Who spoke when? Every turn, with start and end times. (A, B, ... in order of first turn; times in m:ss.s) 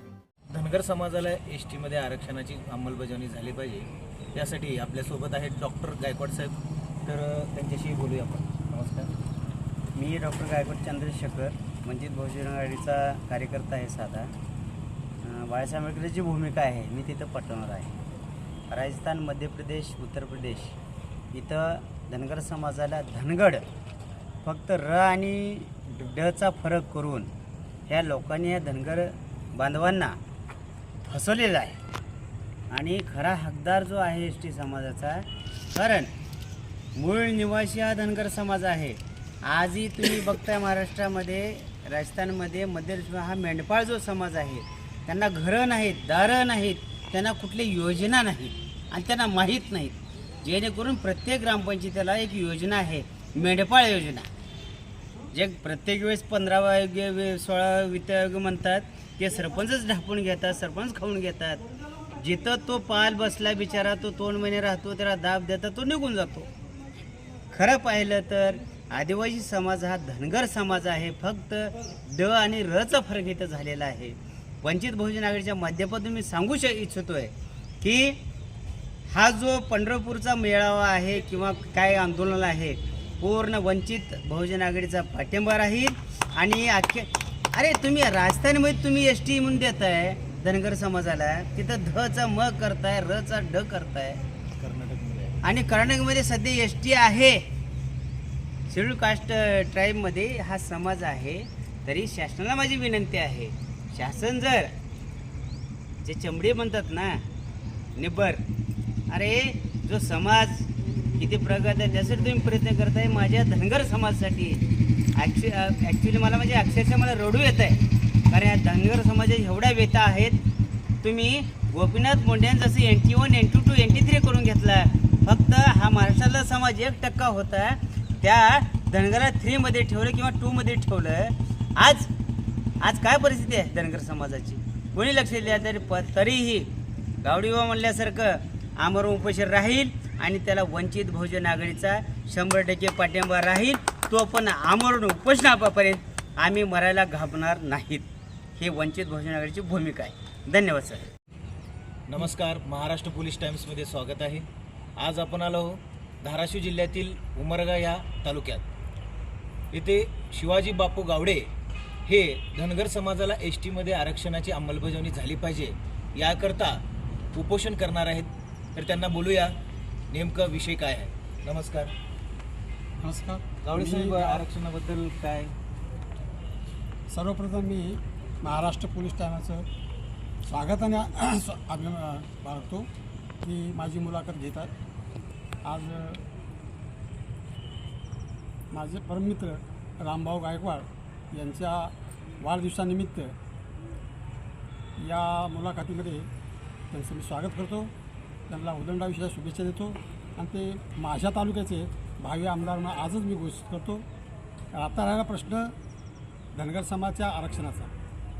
0:00.5-0:09.1 A
0:09.9-0:14.3 B
0:15.2-0:18.0 B
0:18.7-0:20.8 B
0:21.3-0:23.6 B
0:24.4-0:27.3 B
0:27.9-0:30.2 B
0:31.1-0:31.8 B
0:32.7-0:36.1 B
0:37.0-0:54.3 B
0:55.3-1:01.6 B
1:02.2-1:06.5 B
1:07.5-1:18.2 B
1:19.1-1:34.2 B
1:34.6-1:35.5 A
1:35.4-1:37.4 B
1:38.7-1:44.7 B
1:46.0-1:47.2 B
1:48.0-1:48.4 B
1:49.1-1:54.6 B
1:55.2-2:00.4 B
2:01.0-2:12.1 B
2:12.8-2:16.7 B
2:17.2-2:31.1 B
2:32.1-2:38.6 A
2:39.7-2:41.5 A
2:42.1-2:46.8 A
2:47.3-2:49.5 A
2:50.1-2:51.9 A
2:53.0-2:54.4 C
2:53.6-2:55.5 A
2:57.1-2:59.6 C
3:00.4-3:02.9 C
3:03.4-3:04.7 C
3:05.6-3:06.2 C
3:08.7-3:13.3 C
3:15.0-3:16.3 C
3:16.9-3:17.9 C
3:18.5-3:24.0 C
3:24.7-3:25.7 C
3:26.5-3:27.9 C